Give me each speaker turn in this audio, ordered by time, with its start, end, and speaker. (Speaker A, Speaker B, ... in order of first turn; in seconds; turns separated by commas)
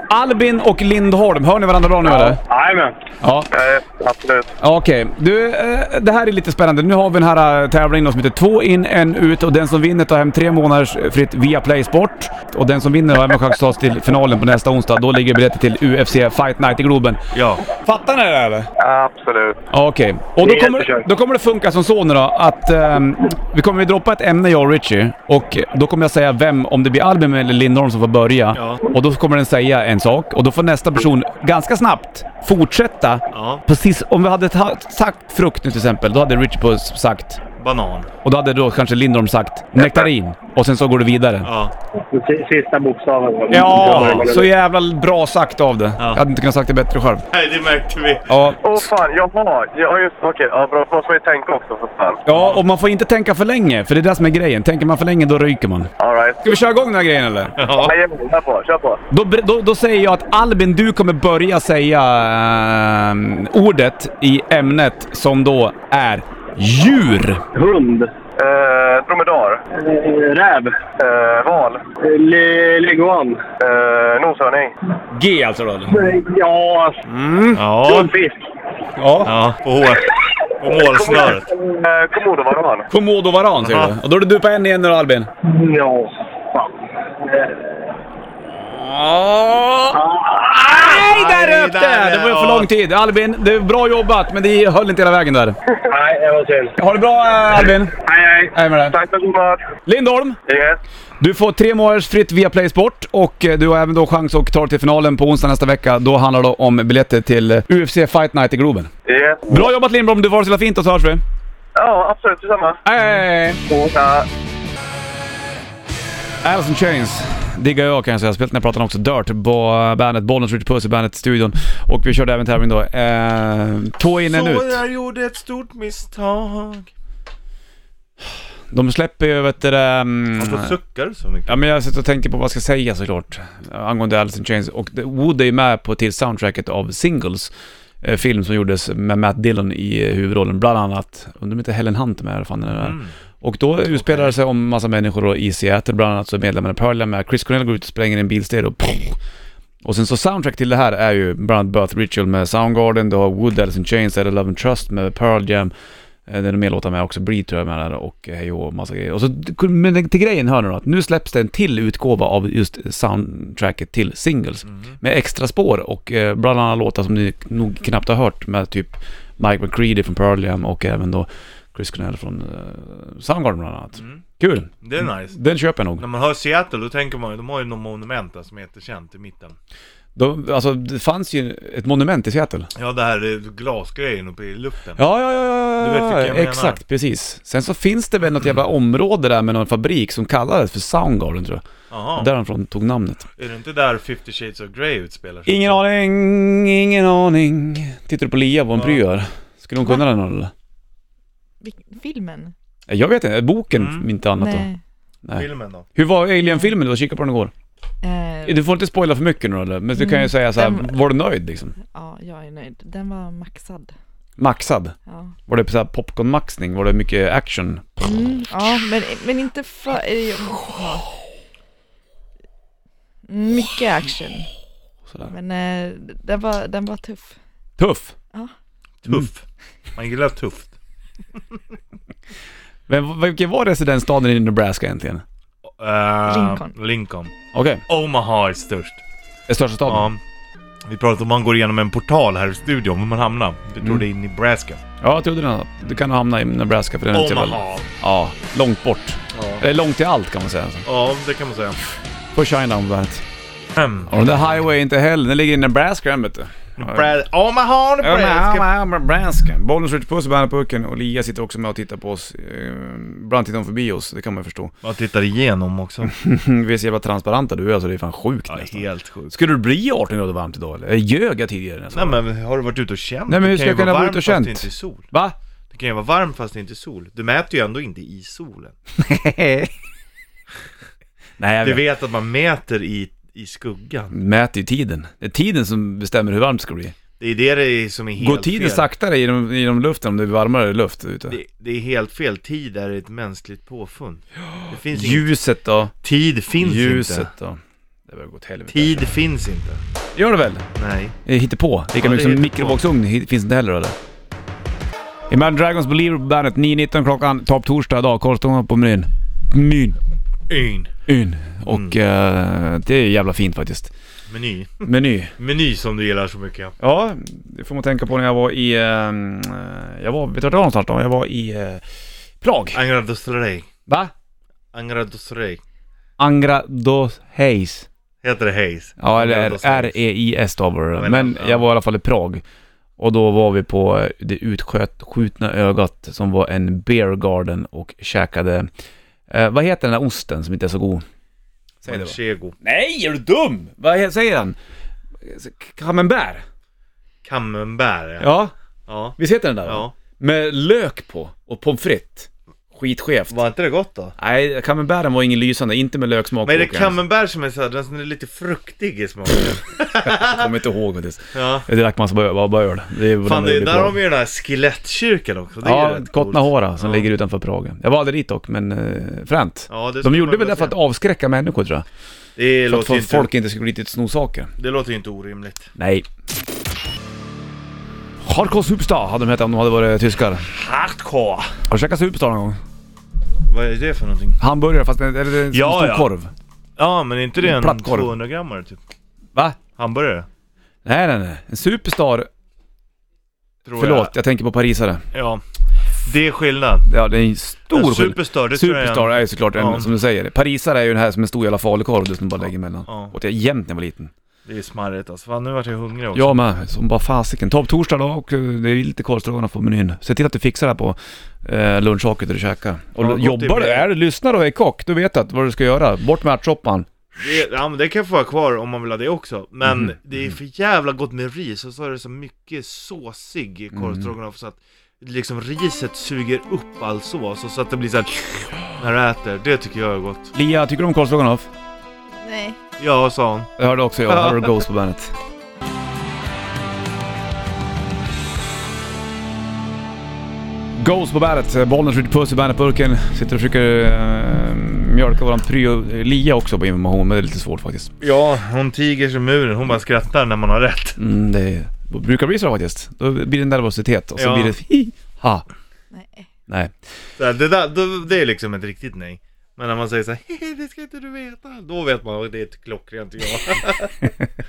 Speaker A: 0.1-2.4, Speaker B: 2.0-3.0, Speaker A: 3.2-3.5, Speaker C: 3.5-4.5, Speaker A: 4.6-18.7, Speaker D: 17.3-17.6, Speaker C: 18.8-19.6, Speaker A: 19.7-37.4, Speaker B: 20.4-20.9, Speaker D: 28.6-28.8, Speaker D: 33.3-33.6, Speaker D: 37.6-38.1, Speaker A: 38.2-41.5, Speaker D: 41.4-41.7, Speaker B: 42.1-44.5, Speaker A: 43.5-47.3, Speaker D: 43.8-44.3, Speaker D: 47.3-48.3, Speaker A: 48.3-48.8, Speaker C: 48.6-52.2, Speaker A: 52.3-55.9, Speaker D: 52.3-52.6, Speaker C: 56.0-56.6, Speaker A: 56.4-57.5, Speaker D: 57.6-57.9, Speaker C: 57.8-59.0, Speaker A: 59.1-67.4, Speaker B: 67.5-68.1, Speaker C: 68.4-69.6, Speaker B: 69.7-70.8, Speaker C: 71.0-71.8, Speaker B: 72.0-73.4, Speaker C: 73.6-74.7, Speaker A: 75.1-76.0, Speaker B: 75.9-77.0, Speaker A: 77.1-77.6, Speaker D: 77.5-78.1, Speaker B: 77.8-78.4, Speaker A: 79.0-79.3, Speaker D: 79.2-81.5, Speaker C: 80.9-82.9, Speaker A: 82.9-85.3, Speaker D: 83.6-84.0, Speaker B: 85.4-87.8, Speaker A: 88.5-90.0, Speaker B: 89.9-91.0, Speaker A: 90.5-95.6, Speaker D: 90.8-92.7, Speaker B: 95.9-96.7, Speaker A: 96.8-97.9, Speaker B: 97.9-98.5, Speaker A: 98.5-99.0, Speaker C: 98.8-99.6, Speaker A: 99.9-100.4, Speaker C: 100.5-100.8, Speaker A: 101.2-108.9, Speaker C: 109.1-109.7, Speaker A: 109.5-111.2, Speaker C: 111.8-112.8, Speaker A: 112.8-113.6, Speaker C: 113.7-114.3, Speaker A: 116.4-124.8, Speaker D: 124.2-126.9, Speaker A: 128.7-130.8, Speaker D: 130.4-131.6, Speaker A: 131.5-137.5, Speaker A: 138.0-149.2, Speaker D: 142.8-143.1, Speaker D: 143.9-144.3, Speaker A: 149.8-155.7, Speaker A: 156.3-176.1, Speaker D: 164.7-164.9, Speaker D: 174.8-175.4, Speaker D: 176.0-179.6, Speaker A: 180.2-182.7, Speaker D: 182.8-185.0, Speaker A: 185.0-191.6, Speaker D: 185.8-186.8, Speaker D: 191.9-192.3, Speaker A: 192.2-193.3, Speaker D: 193.4-195.8, Speaker A: 195.5-200.5, Speaker D: 198.8-199.0, Speaker E: 201.6-202.5, Speaker A: 202.9-204.7, Speaker D: 203.7-204.1, Speaker E: 204.4-204.8, Speaker A: 205.2-207.5, Speaker D: 205.3-205.9, Speaker E: 206.4-206.7, Speaker E: 208.0-208.6, Speaker A: 208.4-211.8, Speaker E: 209.9-210.9, Speaker E: 211.9-213.9, Speaker A: 214.4-214.9, Speaker E: 215.1-215.4, Speaker A: 215.5-218.0, Speaker E: 218.0-221.1, Speaker E: 223.3-224.5, Speaker E: 225.3-227.3, Speaker A: 227.8-228.2, Speaker D: 229.0-229.4, Speaker D: 230.0-230.7, Speaker A: 232.9-235.2, Speaker D: 235.7-237.3, Speaker E: 236.3-236.7, Speaker A: 237.5-237.8, Speaker D: 237.9-239.0, Speaker A: 239.5-240.1, Speaker D: 239.9-240.2, Speaker D: 240.8-244.8, Speaker A: 245.0-250.9, Speaker D: 247.1-247.9, Speaker D: 249.3-249.6, Speaker D: 250.9-251.8, Speaker A: 252.3-253.2, Speaker D: 253.8-254.1, Speaker A: 254.1-257.1, Speaker D: 256.8-258.7, Speaker A: 258.0-264.7, Speaker D: 264.8-266.1, Speaker A: 266.1-272.2, Speaker D: 268.5-269.4, Speaker D: 271.9-275.1, Speaker A: 273.3-275.4, Speaker D: 275.7-278.7, Speaker A: 279.0-279.7, Speaker A: 281.4-281.8, Speaker D: 281.6-284.1, Speaker A: 284.1-287.0, Speaker D: 287.2-288.9, Speaker A: 288.2-291.4, Speaker D: 291.3-295.3, Speaker A: 294.9-295.9, Speaker D: 296.0-297.3, Speaker A: 296.6-299.1, Speaker D: 298.7-299.8, Speaker A: 300.2-300.6, Speaker D: 300.8-301.2, Speaker A: 301.3-303.9, Speaker D: 301.9-302.8, Speaker A: 305.3-310.0, Speaker D: 310.5-310.9, Speaker A: 311.1-313.9, Speaker D: 311.6-312.0, Speaker D: 314.3-316.8, Speaker A: 314.9-315.3, Speaker A: 316.8-321.8, Speaker A: 322.4-322.8, Speaker D: 322.7-323.7, Speaker D: 324.7-325.6, Speaker A: 326.2-327.9, Speaker D: 328.2-330.0, Speaker A: 329.0-332.4, Speaker D: 331.0-331.7, Speaker A: 333.0-338.7, Speaker A: 339.3-341.0, Speaker A: 341.8-344.6, Speaker D: 341.9-342.6, Speaker A: 345.2-346.4, Speaker D: 347.2-348.3, Speaker A: 348.2-348.5, Speaker D: 348.9-349.9, Speaker A: 349.2-353.4, Speaker D: 353.3-354.1, Speaker A: 354.2-357.0, Speaker D: 356.4-360.5, Speaker A: 360.0-364.0, Speaker D: 361.3-361.7, Speaker D: 363.2-367.1, Speaker A: 365.6-371.9, Speaker D: 369.7-370.8, Speaker D: 372.4-373.3, Speaker A: 372.7-374.5, Speaker D: 374.6-375.7, Speaker A: 375.8-376.1, Speaker A: 378.2-380.5, Speaker D: 380.5-381.6, Speaker A: 381.7-382.6, Speaker D: 383.4-384.4, Speaker A: 384.4-386.3, Speaker D: 385.5-386.1, Speaker D: 386.8-388.8, Speaker A: 387.4-388.1, Speaker D: 389.8-390.3, Speaker A: 390.9-392.3, Speaker D: 393.6-394.1, Speaker A: 393.8-395.0, Speaker D: 395.1-395.4, Speaker D: 396.0-396.9, Speaker A: 396.9-404.1, Speaker D: 397.7-399.9, Speaker D: 402.9-403.1, Speaker D: 404.4-406.4, Speaker A: 406.1-416.9, Speaker D: 413.0-413.9, Speaker D: 417.2-430.3, Speaker A: 423.8-424.1, Speaker A: 430.3-431.5, Speaker E: 432.2-432.6, Speaker D: 432.8-433.5, Speaker A: 433.6-435.1, Speaker D: 434.1-434.6, Speaker A: 440.8-447.9, Speaker D: 448.0-451.0, Speaker A: 451.0-455.5, Speaker D: 454.2-454.6, Speaker E: 455.9-456.3, Speaker A: 456.5-456.7, Speaker D: 457.2-463.9